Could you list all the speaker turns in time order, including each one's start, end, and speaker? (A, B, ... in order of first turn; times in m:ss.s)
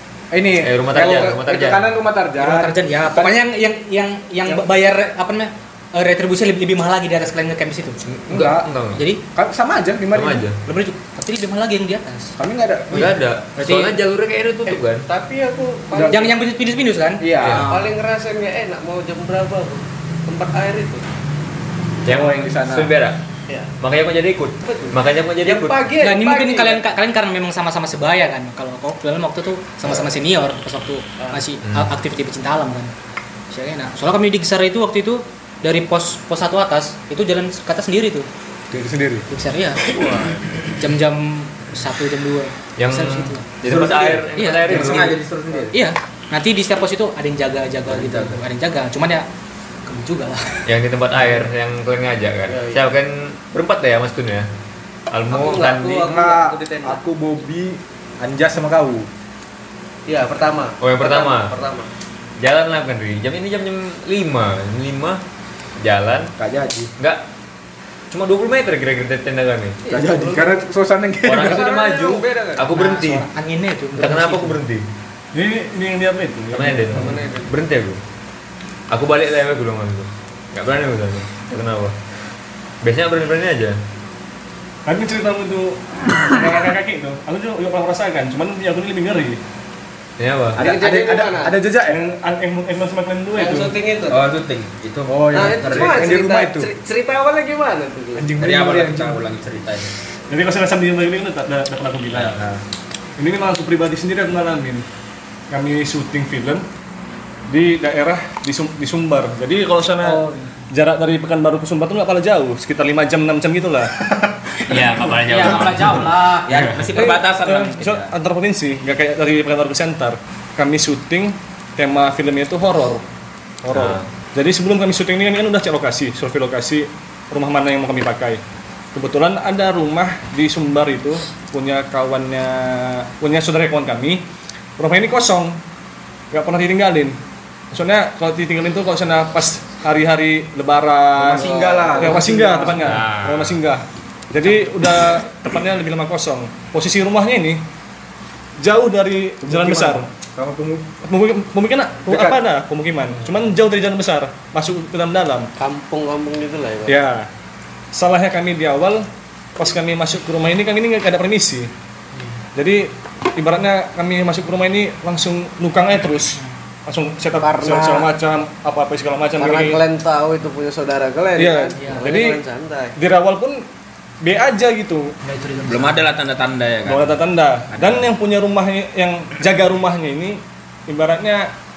0:00.3-0:03.4 A
0:00.6-0:01.9 B
0:02.4-0:08.0 C
0:08.0-0:09.0 B
0:08.3-0:08.7 A
0:08.9-0:09.2 C
0:09.3-0:10.4 A
0:10.1-0:10.6 B
0:10.6-0:12.3 C
0:12.4-0:13.1 A
0:12.9-0:15.0 B
0:13.6-0:13.9 C
0:14.7-0:16.4 D
0:15.9-0:16.3 A
0:16.1-0:17.9 C
0:17.2-0:17.7 A
0:17.4-0:17.6 B
0:17.6-0:21.0 D
0:22.0-0:23.2 B
0:22.0-0:22.9 A
0:23.8-0:25.8 B
0:24.6-0:26.8 D
0:26.0-0:32.9 C
0:33.5-0:38.3 C
0:38.7-0:39.3 A
0:39.3-0:39.8 C
0:39.8-0:40.7 D
0:40.8-0:43.5 C
0:42.8-0:45.2 B
0:43.7-0:45.7 E
0:44.3-0:45.1 C
0:44.9-0:45.7 D
0:45.7-0:49.3 C
0:47.9-0:48.3 D
0:49.8-0:50.6 C
0:50.6-0:54.5 B
0:52.5-0:53.0 D
0:55.1-0:56.1 B
0:55.3-0:57.0 D
0:56.0-0:59.1 A
1:00.1-1:01.9 D
1:00.8-1:01.5 B
1:02.4-1:05.2 B
1:05.8-1:06.3 B
1:06.4-1:06.9 A
1:08.1-1:09.8 B
1:09.8-1:10.6 D
1:09.9-1:11.7 A
1:11.2-1:13.2 B
1:11.3-1:12.7 D
1:12.7-1:14.6 C
1:13.9-1:14.8 B
1:15.3-1:17.2 F
1:16.5-1:18.0 B
1:16.9-1:17.6 D
1:18.9-1:21.9 B
1:22.8-1:23.8 B
1:24.8-1:29.4 F
1:30.2-1:30.6 B
1:30.6-1:32.0 A
1:30.6-1:31.5 D
1:31.8-1:33.7 F
1:33.3-1:34.2 D
1:34.1-1:36.0 E
1:35.1-1:36.7 A
1:35.3-1:38.3 D
1:38.2-1:39.2 A
1:38.4-1:39.9 E
1:40.3-1:42.4 F
1:43.2-1:44.8 F
1:45.5-1:46.6 F
1:47.5-1:53.9 F
1:50.0-1:50.3 C
1:54.6-1:57.0 B
1:55.2-1:57.2 C
1:56.4-1:58.1 E
1:57.0-2:03.0 F
2:03.6-2:08.4 F
2:03.7-2:04.1 B
2:08.9-2:14.2 F
2:14.8-2:15.6 F
2:16.3-2:17.2 F
2:17.7-2:27.6 F
2:21.2-2:23.0 A
2:21.3-2:22.8 D
2:22.8-2:23.6 B
2:28.6-2:30.1 F
2:29.4-2:30.9 A
2:31.0-2:35.5 F
2:32.1-2:32.4 A
2:35.6-2:37.0 D
2:36.8-2:37.3 F
2:37.9-2:41.7 F
2:42.5-2:49.8 F
2:47.4-2:48.1 D
2:49.4-2:52.9 D
2:51.4-2:52.4 F
2:51.8-2:52.0 C
2:53.0-2:53.6 F
2:54.2-2:55.1 F
2:55.2-2:56.0 C
2:55.6-2:57.2 E
2:56.8-3:01.5 F
2:57.7-2:58.0 E